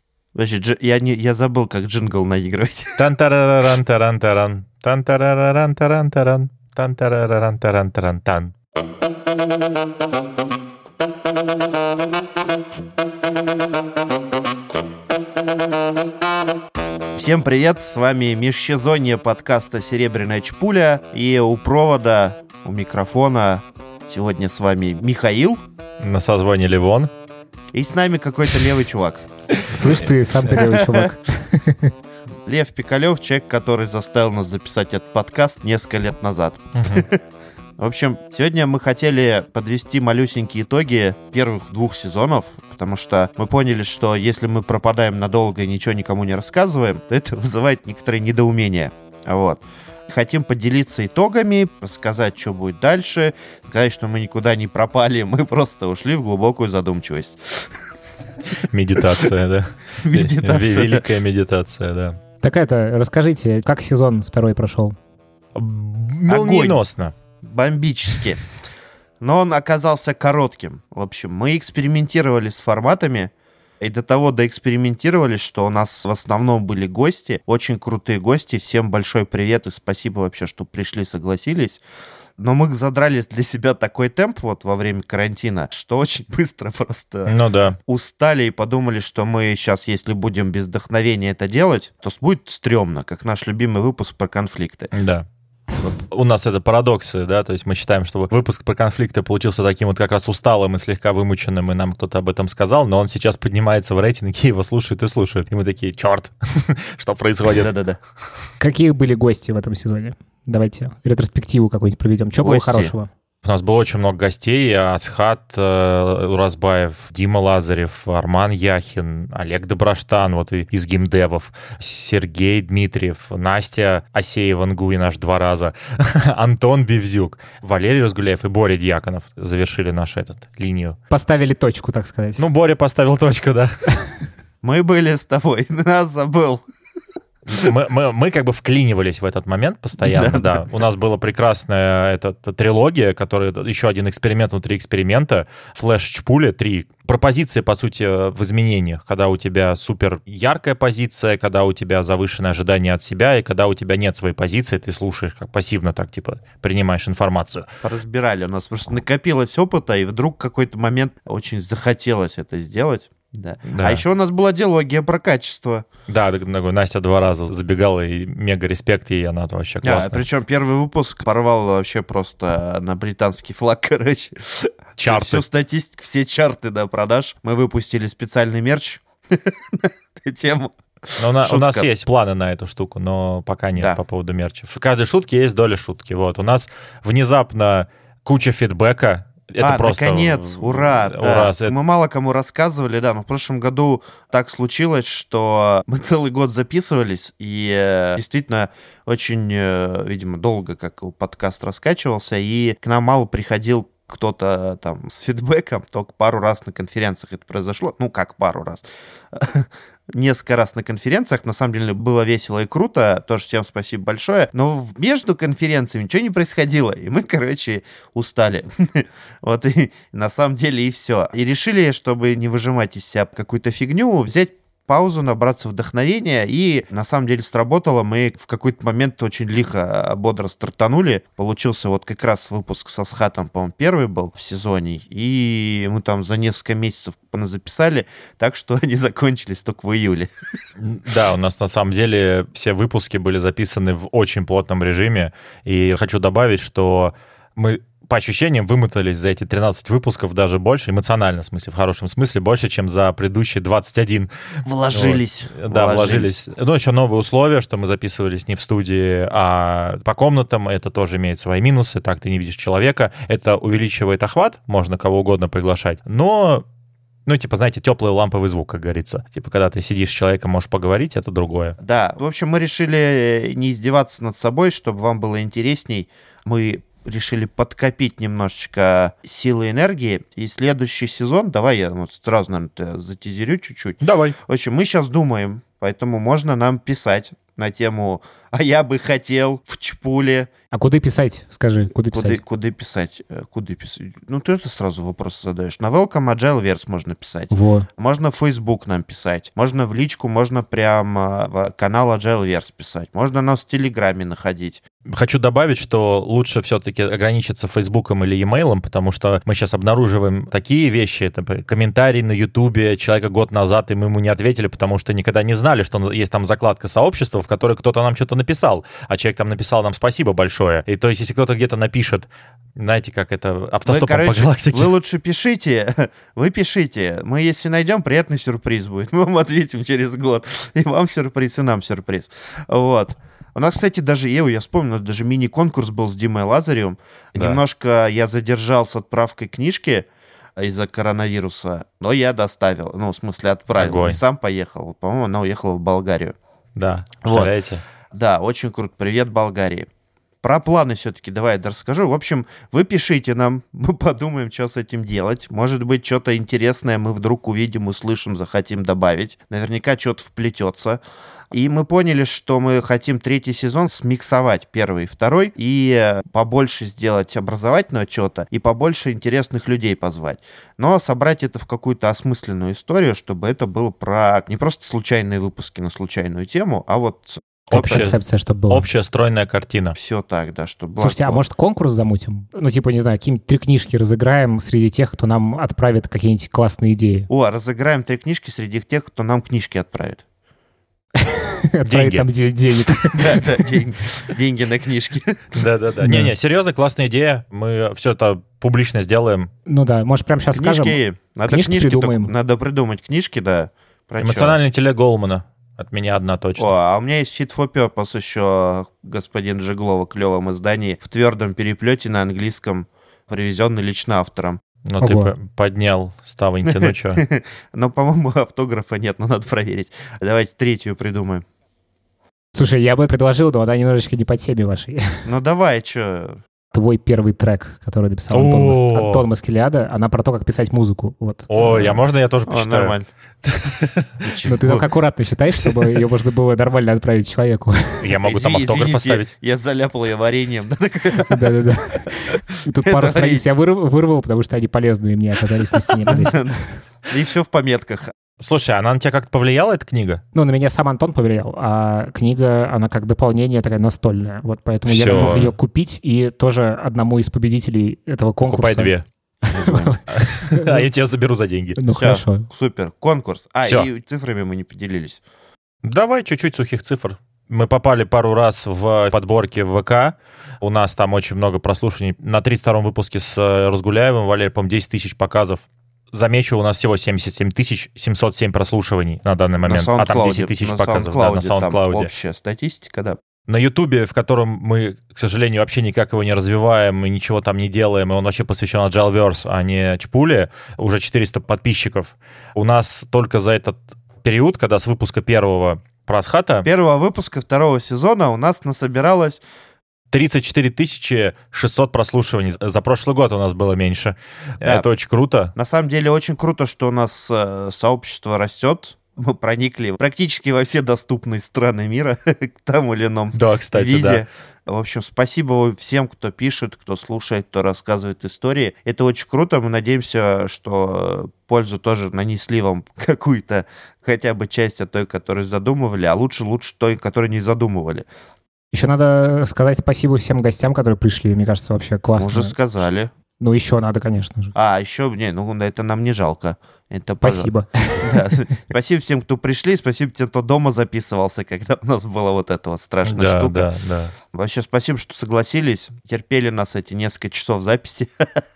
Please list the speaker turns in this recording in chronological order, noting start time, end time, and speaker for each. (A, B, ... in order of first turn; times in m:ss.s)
0:00.4-0:03.1 A
0:03.0-0:08.5 B
0:17.2-0:25.6 A
0:26.0-0:27.1 B
0:27.7-0:29.2 A
0:29.7-0:31.9 C
0:30.5-0:31.1 A
0:32.5-0:37.2 A
0:36.8-0:37.1 B
0:37.8-0:57.7 A
0:58.7-1:02.2 B
1:00.0-1:01.1 A
1:02.4-1:05.0 C
1:05.6-1:07.1 B
1:06.3-1:06.8 A
1:07.4-1:08.4 A
1:09.2-1:21.8 A
1:22.4-1:27.4 A
1:27.3-1:27.8 B
1:27.9-1:34.9 A
1:34.9-1:35.3 B
1:35.8-1:47.7 B
1:47.5-1:48.0 A
1:48.6-1:53.1 C
1:52.4-1:52.9 A
1:53.4-2:11.0 B
2:11.1-2:12.4 C
2:12.4-2:13.9 B
2:14.6-2:16.6 A
2:17.5-2:37.7 B
2:20.0-2:20.8 A
2:37.8-2:45.8 A
2:43.8-2:44.0 B
2:46.1-2:50.2 B
2:49.8-3:01.9 A
2:55.0-2:55.4 B
3:01.2-3:11.7 B
3:09.6-4:00.3 A
4:00.8-4:14.3 B
4:14.6-4:16.4 A
4:14.9-4:26.6 B
4:27.3-4:31.8 B
4:31.8-4:50.5 A
4:44.0-4:44.4 B
4:50.7-4:52.4 C
4:52.1-5:04.8 A
4:57.5-4:57.9 C
5:05.1-5:24.9 B
5:23.8-5:40.1 A
5:40.6-5:46.4 A
5:43.8-5:44.2 B
5:46.8-5:47.8 B
5:47.2-5:47.5 A
5:48.1-5:49.9 A
5:50.4-6:01.0 A
6:01.5-6:18.1 A
6:17.7-6:18.9 C
6:17.7-6:20.0 B
6:20.0-6:21.4 A
6:21.0-6:27.3 C
6:27.3-6:30.2 A
6:31.2-6:33.7 C
6:31.9-6:32.3 B
6:33.1-6:35.7 A
6:35.6-6:39.5 B
6:36.0-6:36.3 C
6:39.7-6:42.3 C
6:40.6-6:44.6 A
6:44.2-6:46.7 B
6:46.6-6:54.6 A
6:54.8-6:57.2 B
6:55.0-6:55.3 C
6:56.7-7:01.4 A
7:02.5-7:05.3 C
7:05.2-7:06.4 A
7:06.7-7:12.0 C
7:08.3-7:09.3 B
7:11.5-7:14.1 B
7:12.5-7:13.1 A
7:14.2-7:14.9 A
7:14.4-7:18.1 C
7:18.0-7:19.3 B
7:18.2-7:21.4 A
7:21.3-7:26.5 C
7:22.8-7:23.5 A
7:26.1-7:28.1 A
7:28.4-7:30.2 B
7:30.3-7:40.8 C
7:34.8-7:35.5 B
7:35.2-7:35.4 A
7:38.4-7:39.0 B
7:39.5-7:40.0 A
7:40.1-7:41.8 B
7:41.8-7:42.5 C
7:42.0-7:45.2 A
7:45.8-8:02.1 B
7:59.7-8:03.2 A
8:03.5-8:16.7 B
8:16.6-8:19.4 A
8:20.1-8:25.5 B
8:25.6-8:48.1 A
8:33.3-8:34.2 B
8:48.7-8:52.6 C
8:52.2-8:53.1 A
8:53.4-8:54.5 C
8:54.6-9:03.7 A
8:57.2-8:58.4 C
9:03.0-9:04.1 B
9:04.3-9:08.1 A